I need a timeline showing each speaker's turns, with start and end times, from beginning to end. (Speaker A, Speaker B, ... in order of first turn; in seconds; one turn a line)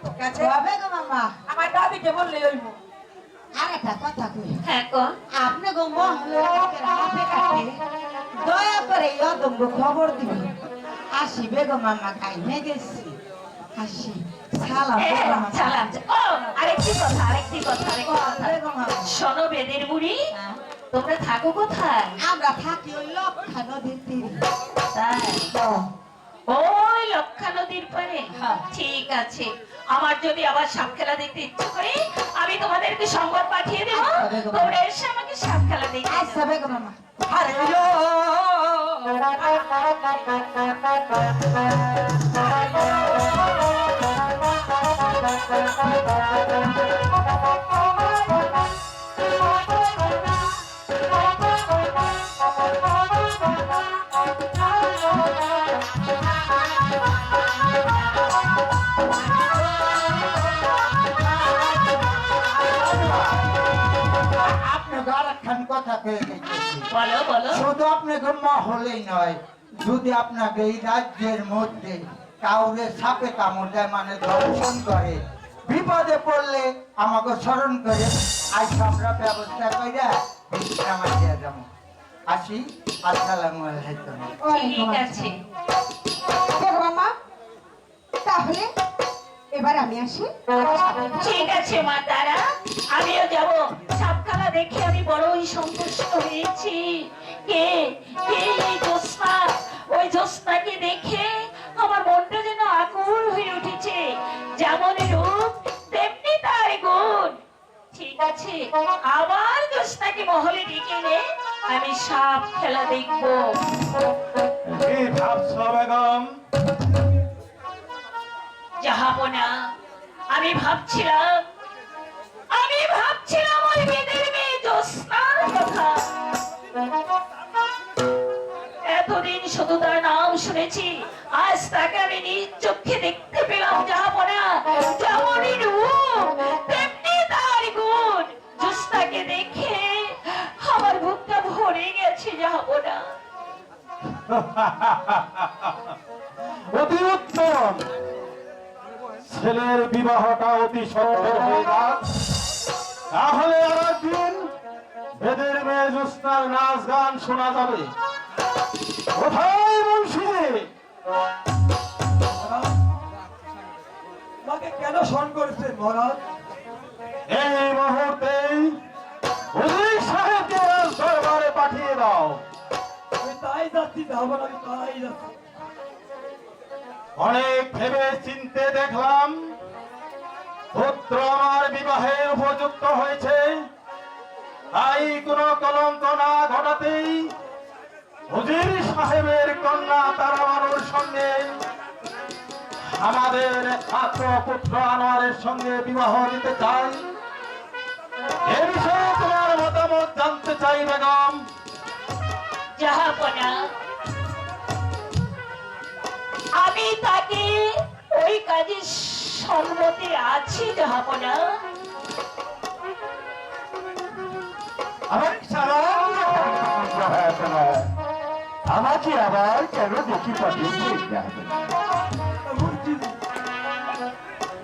Speaker A: 0.2-1.4
Speaker B: 1.5-2.8
Speaker A: 3.5-4.6
Speaker C: 4.6-5.1
Speaker A: 5.3-7.7
Speaker A: 8.4-10.5
Speaker A: 11.1-13.2
Speaker A: 13.8-15.9
Speaker C: 15.0-20.2
Speaker A: 18.0-19.1
Speaker C: 20.9-22.1
Speaker A: 22.2-24.4
Speaker C: 24.9-25.5
Speaker C: 26.5-36.5
Speaker A: 28.4-28.6
Speaker A: 33.9-34.7
Speaker A: 36.1-38.2
Speaker D: 62.7-63.2
Speaker D: 64.4-66.9
Speaker C: 66.9-67.6
Speaker D: 67.5-81.6
Speaker D: 82.3-84.3
Speaker E: 84.4-85.0
Speaker C: 84.5-85.4
Speaker E: 86.5-87.1
Speaker E: 88.2-88.7
Speaker E: 89.5-91.1
Speaker C: 91.1-107.4
Speaker C: 107.9-113.6
Speaker F: 114.6-116.3
Speaker C: 118.8-119.6
Speaker C: 120.3-121.4
Speaker C: 122.5-126.1
Speaker C: 128.8-143.0
Speaker F: 144.3-145.7
Speaker F: 146.7-147.8
Speaker F: 149.2-152.0
Speaker F: 153.1-154.5
Speaker F: 155.2-157.9
Speaker F: 159.1-160.7
Speaker B: 162.2-162.8
Speaker B: 164.4-166.2
Speaker F: 167.3-168.8
Speaker F: 169.5-172.4
Speaker B: 173.2-175.3
Speaker F: 177.2-179.3
Speaker F: 180.7-183.6
Speaker F: 184.7-187.2
Speaker F: 188.3-191.5
Speaker F: 193.0-197.0
Speaker F: 198.4-201.4
Speaker C: 202.8-203.6
Speaker C: 206.5-211.6
Speaker F: 215.1-216.1
Speaker G: 215.2-215.6
Speaker G: 216.1-217.8
Speaker G: 218.6-221.5
Speaker B: 222.4-223.2